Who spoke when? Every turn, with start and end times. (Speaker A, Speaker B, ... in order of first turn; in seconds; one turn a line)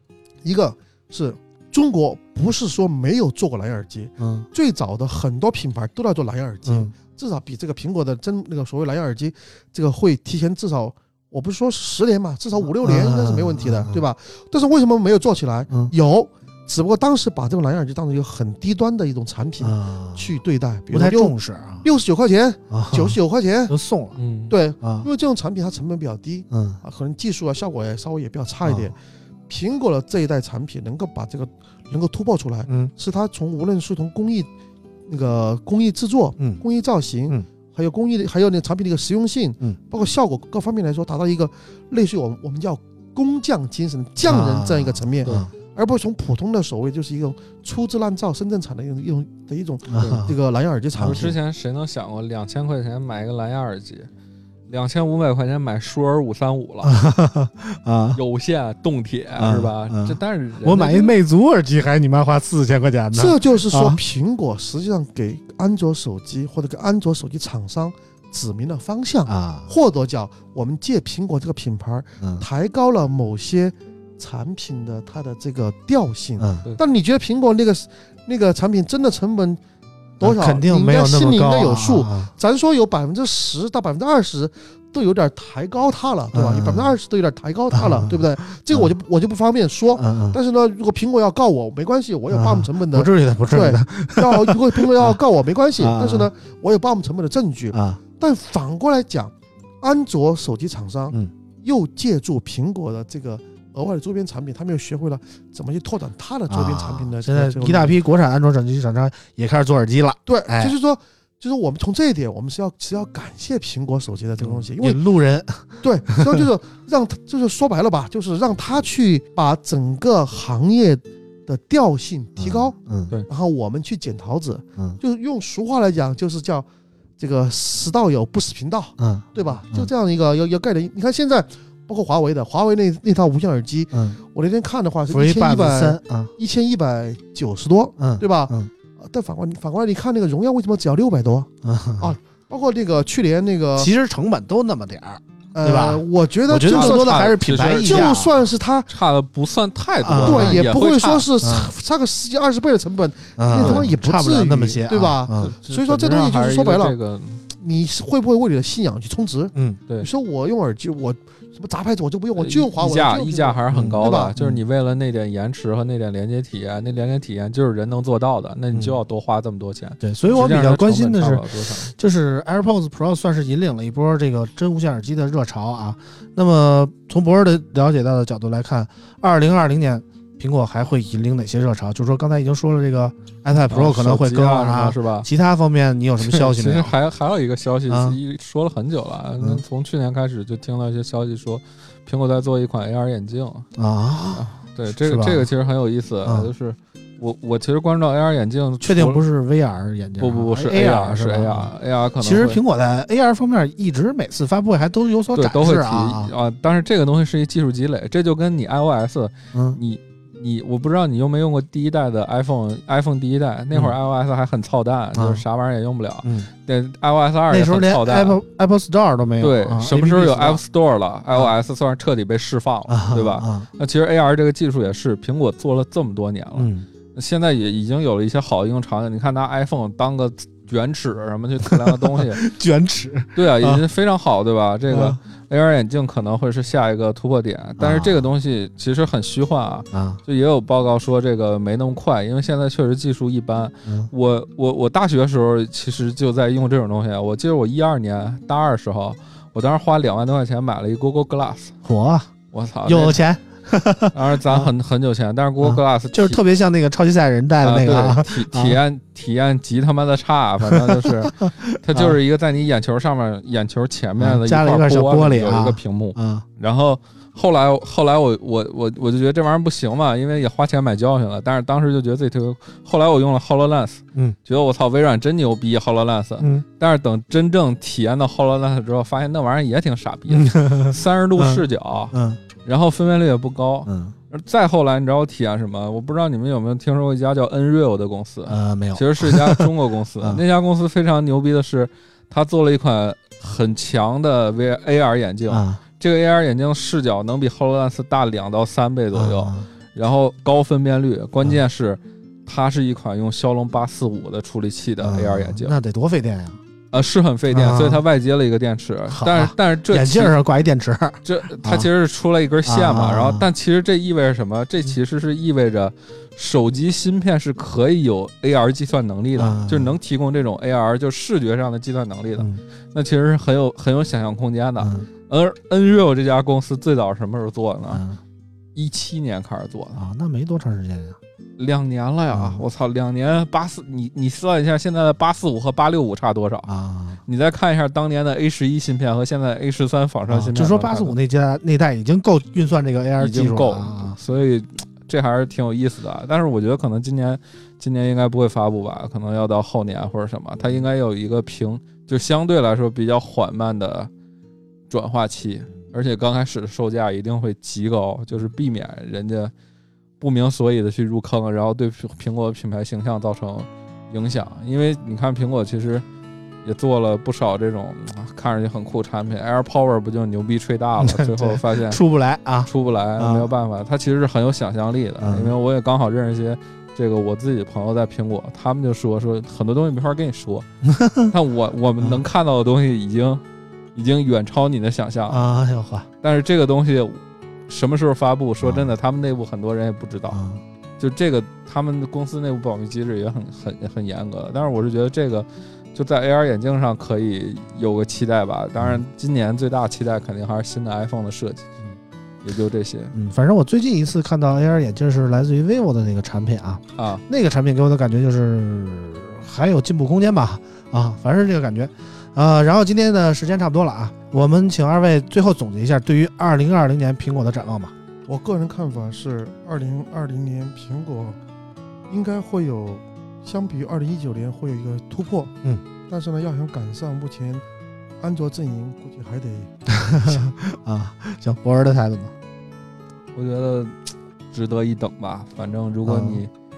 Speaker A: 0.4-23.8
Speaker B: 4.2-4.5
Speaker B: 6.7-6.9
Speaker B: 12.8-14.0
Speaker B: 19.6-20.3
Speaker B: 20.9-21.9
Speaker B: 22.7-23.2
Speaker B: 23.7-24.2
Speaker C: 24.2-24.5
Speaker A: 24.5-28.9
Speaker B: 24.8-25.1
Speaker B: 26.5-26.8
Speaker B: 28.6-28.9
Speaker A: 29.5-34.5
Speaker A: 35.1-51.3
Speaker B: 44.2-45.5
Speaker B: 49.9-50.3
Speaker B: 51.0-51.3
Speaker C: 51.0-54.1
Speaker C: 54.7-56.9
Speaker B: 56.8-58.2
Speaker C: 58.1-61.1
Speaker B: 59.4-64.0
Speaker A: 63.1-79.6
Speaker B: 69.3-69.7
Speaker B: 76.4-76.6
Speaker A: 80.2-107.9
Speaker B: 80.2-82.3
Speaker B: 86.3-86.9
Speaker B: 87.7-88.9
Speaker B: 90.0-90.4
Speaker B: 92.3-95.2
Speaker B: 95.8-96.3
Speaker B: 97.7-98.0
Speaker B: 106.5-110.7
Speaker A: 110.3-115.0
Speaker B: 114.4-116.4
Speaker A: 115.8-122.8
Speaker B: 122.4-123.2
Speaker A: 123.3-126.7
Speaker A: 127.2-143.9
Speaker B: 129.0-129.9
Speaker B: 133.9-134.2
Speaker B: 135.1-136.3
Speaker B: 138.0-138.7
Speaker B: 141.6-142.2
Speaker B: 143.8-148.3
Speaker A: 145.5-148.9
Speaker C: 146.6-148.2
Speaker C: 148.9-151.3
Speaker B: 150.0-150.7
Speaker A: 150.2-157.0
Speaker B: 151.4-151.7
Speaker B: 153.4-155.5
Speaker C: 153.6-153.9
Speaker C: 155.4-157.4
Speaker A: 157.5-164.3
Speaker C: 162.4-171.9
Speaker B: 163.7-164.6
Speaker B: 168.7-169.0
Speaker B: 170.0-186.9
Speaker C: 183.7-185.3
Speaker C: 186.2-193.7
Speaker B: 187.9-188.2
Speaker B: 193.8-195.5
Speaker C: 194.3-199.2
Speaker B: 196.2-196.5
Speaker B: 198.8-206.3
Speaker C: 200.2-202.6
Speaker C: 205.3-218.4
Speaker B: 209.5-209.8
Speaker B: 215.1-215.4
Speaker B: 216.2-216.5
Speaker B: 217.5-220.6
Speaker C: 219.4-232.4
Speaker B: 222.9-223.7
Speaker B: 226.6-226.9
Speaker B: 231.6-233.8
Speaker C: 233.3-251.8
Speaker B: 234.9-235.2
Speaker B: 237.8-238.3
Speaker B: 239.9-240.2
Speaker B: 251.8-252.3
Speaker C: 252.5-253.2
Speaker B: 252.8-254.7
Speaker C: 254.1-256.4
Speaker B: 255.6-258.8
Speaker C: 257.6-282.1
Speaker B: 260.7-262.2
Speaker B: 264.2-266.4
Speaker B: 276.4-276.6
Speaker B: 280.3-282.4
Speaker C: 282.6-305.8
Speaker B: 283.9-284.1
Speaker B: 288.5-290.4
Speaker B: 295.5-295.8
Speaker B: 299.1-299.7
Speaker B: 305.0-306.6
Speaker C: 306.9-310.4
Speaker B: 307.5-308.0
Speaker B: 309.1-311.9
Speaker C: 311.2-328.0
Speaker B: 312.6-313.5
Speaker B: 319.4-320.0
Speaker B: 324.8-325.1
Speaker B: 327.9-328.2
Speaker C: 328.8-330.0
Speaker B: 329.9-331.2
Speaker C: 331.6-336.7
Speaker B: 332.3-332.6
Speaker B: 336.7-337.2
Speaker C: 337.3-341.1
Speaker B: 340.3-344.2
Speaker C: 343.2-354.1
Speaker C: 354.9-359.5
Speaker C: 360.2-366.0
Speaker C: 366.6-372.0
Speaker B: 371.0-373.5
Speaker C: 372.7-380.7
Speaker B: 375.2-375.6
Speaker B: 380.9-381.3
Speaker C: 381.3-383.4
Speaker C: 383.9-385.4
Speaker B: 385.3-386.1
Speaker C: 386.2-390.4
Speaker B: 388.6-388.9
Speaker B: 390.3-390.6
Speaker C: 391.0-401.7
Speaker C: 402.4-403.1
Speaker B: 403.1-417.9
Speaker C: 407.0-407.2
Speaker A: 418.3-421.4
Speaker A: 422.1-425.5
Speaker A: 426.1-427.6
Speaker A: 428.2-429.7
Speaker B: 429.9-432.3
Speaker C: 433.4-436.5
Speaker B: 436.1-436.4